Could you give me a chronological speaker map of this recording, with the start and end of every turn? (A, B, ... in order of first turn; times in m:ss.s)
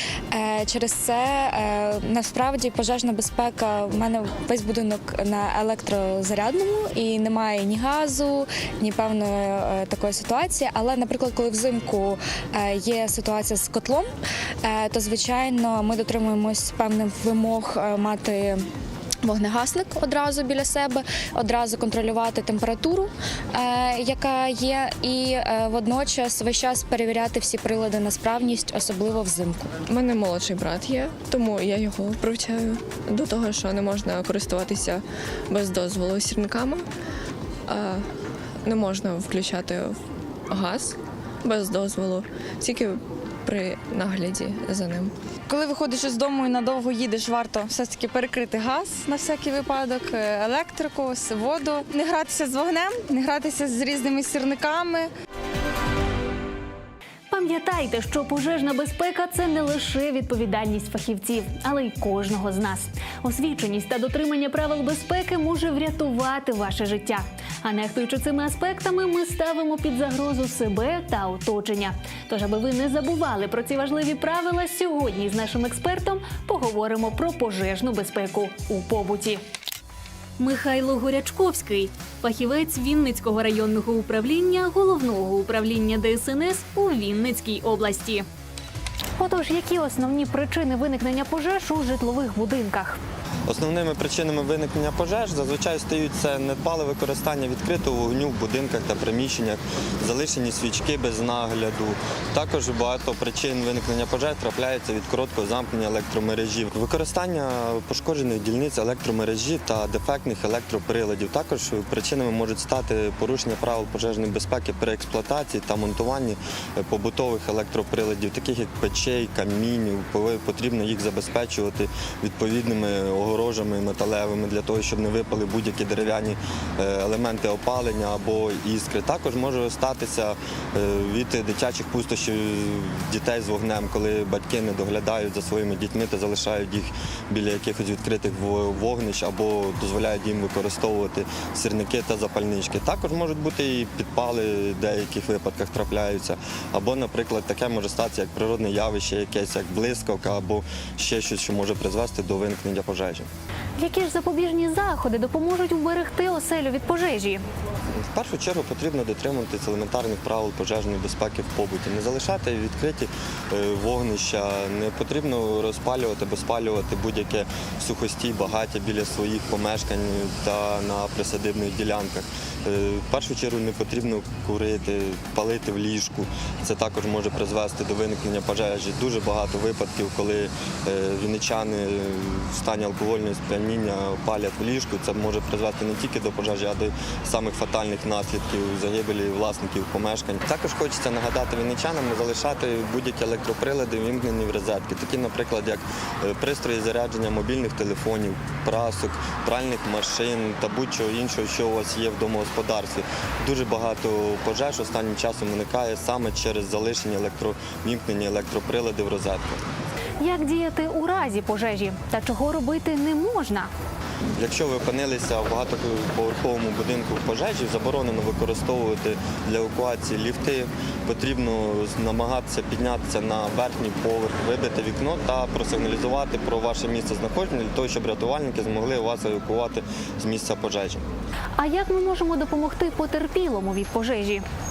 0:00.3-0:14.1 A
0:14.6-0:18.6 A
0:19.2-0:29.8 A
0:29.9-0:36.8 B
0:37.7-0:38.0 B
0:38.6-0:40.0 B
0:40.5-0:45.1 B
0:45.5-0:55.0 C
0:57.3-1:19.4 D
1:20.4-1:28.2 D
1:29.2-1:33.0 D
1:33.5-2:33.3 E
2:33.8-2:37.4 D
2:38.1-3:29.6 E
3:30.2-3:33.7 D
3:34.4-3:51.0 E
3:51.6-3:54.4 D